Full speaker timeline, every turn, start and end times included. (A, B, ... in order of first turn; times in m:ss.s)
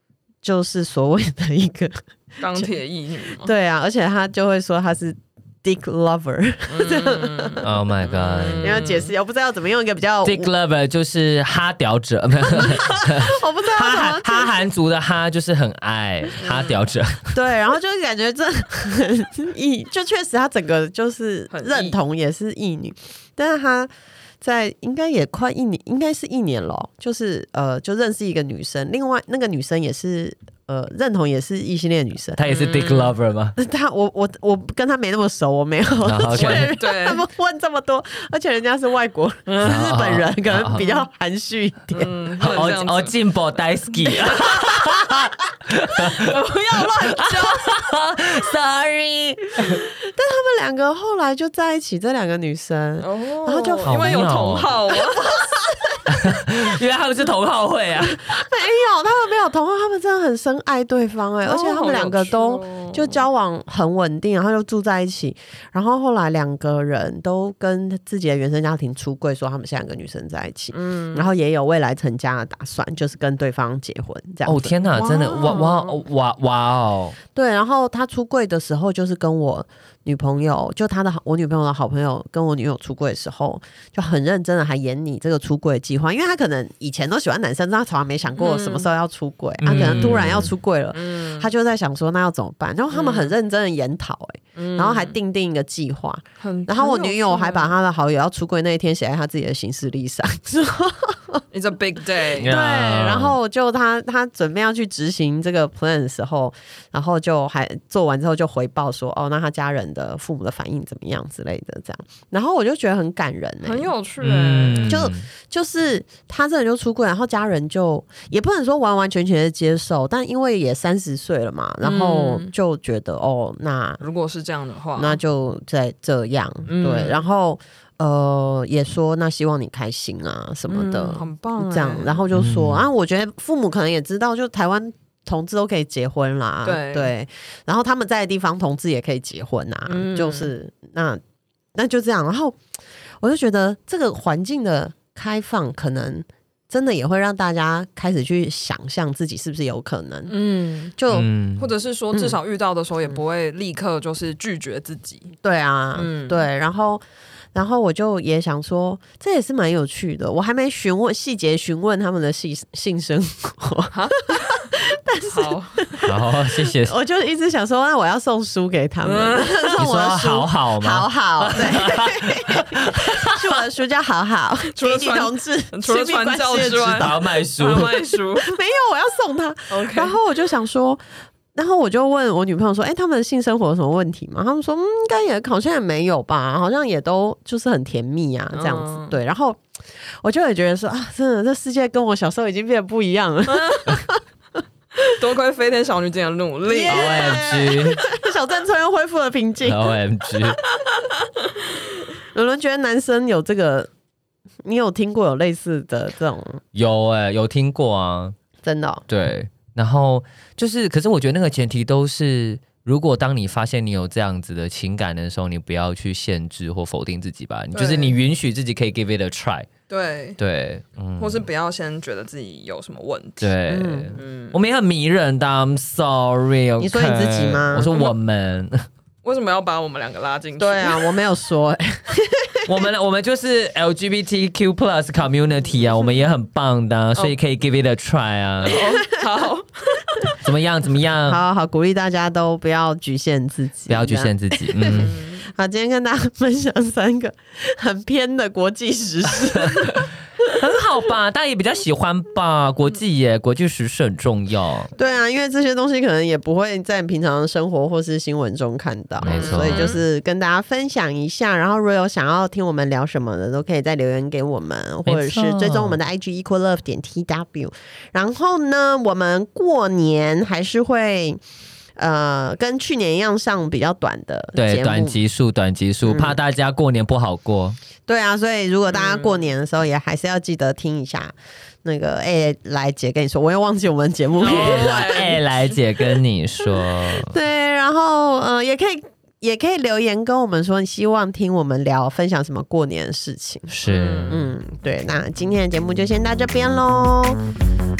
0:00.4-0:02.7 A
0:02.4-0:03.5 B
0:03.4-0:07.6 A
0:06.7-0:09.1 B
0:07.6-0:08.8 C
0:08.6-0:10.5 A
0:10.2-0:17.4 C
0:12.5-0:14.5 A
0:16.4-0:16.8 B
0:17.3-0:32.4 A
0:21.5-0:22.0 B
0:32.4-0:33.6 C
0:32.4-0:33.1 B
0:33.6-0:42.1 A
0:36.0-0:36.7 C
0:36.3-0:37.2 B
0:39.4-0:39.8 B
0:39.6-0:40.8 C
0:41.9-0:43.2 B
0:42.4-0:49.8 C
0:44.1-0:45.2 A
0:46.0-0:47.8 A
0:49.6-0:54.4 A
0:53.0-0:55.3 B
0:53.8-0:54.7 C
0:54.9-0:56.1 A
0:56.1-0:58.2 C
0:58.0-1:15.6 A
1:01.4-1:03.2 B
1:10.7-1:11.3 B
1:14.4-1:17.2 C
1:15.0-1:16.0 B
1:17.3-1:41.4 A
1:28.4-1:28.9 B
1:29.6-1:30.5 C
1:29.7-1:30.4 B
1:30.9-1:31.5 B
1:32.9-1:33.3 B
1:34.5-1:35.2 B
1:36.4-1:37.7 B
1:41.5-1:42.5 B
1:42.4-1:43.4 C
1:42.4-1:53.9 A
1:53.6-1:55.0 B
1:54.2-1:55.2 C
1:54.8-2:04.0 A
2:01.8-2:02.5 B
2:04.0-2:05.2 B
2:05.0-2:21.2 A
2:06.7-2:07.2 B
2:10.7-2:12.2 B
2:12.3-2:12.9 C
2:16.6-2:17.1 B
2:19.9-2:20.5 B
2:21.7-2:22.6 A
2:23.2-2:30.3 A
2:30.3-2:31.0 B
2:31.0-2:31.3 A
2:31.1-2:31.7 C
2:31.6-2:35.3 B
2:35.4-2:37.0 A
2:36.0-2:36.5 B
2:37.5-2:57.1 A
2:43.9-2:44.7 B
2:45.2-2:46.0 B
2:46.0-2:46.9 C
2:49.0-2:49.8 B
2:49.8-2:53.6 C
2:54.7-2:58.6 B
2:57.0-2:57.9 C
2:57.7-3:01.0 A
2:59.7-3:00.2 B
3:01.5-3:09.6 A
3:08.5-3:09.2 B
3:10.2-3:14.2 A
3:13.5-3:14.0 B
3:15.0-3:17.6 B
3:16.7-3:19.8 A
3:16.9-3:18.0 C
3:19.6-3:20.6 C
3:22.3-3:23.9 A
3:24.6-3:26.6 A
3:26.7-3:28.3 C
3:28.6-3:29.0 A
3:29.1-3:39.7 C
3:37.7-3:38.2 B
3:39.9-3:40.4 B
3:40.4-3:41.4 C
3:41.2-3:43.5 B
3:43.4-3:48.9 C
3:43.7-3:44.1 A
3:44.2-3:44.6 B
3:46.8-3:47.9 A
3:49.2-3:51.2 B
3:50.6-3:52.7 A
3:52.6-3:58.8 C
3:58.6-4:00.4 B
4:00.4-4:01.4 C
4:01.3-4:10.0 A
4:03.9-4:05.1 C
4:04.9-4:05.5 B
4:09.5-4:10.0 C
4:10.5-4:14.9 C
4:15.0-4:31.4 A
4:19.2-4:19.9 C
4:19.2-4:20.0 B
4:25.0-4:26.0 C
4:32.0-4:35.2 A
4:34.6-4:37.8 C
4:36.0-4:36.3 A
4:38.1-4:45.3 A
4:38.9-4:39.4 B
4:44.4-4:45.4 B
4:44.4-4:47.3 C
4:47.0-4:53.7 A
4:53.7-4:54.4 C
4:53.9-4:54.4 B
4:54.3-4:57.4 A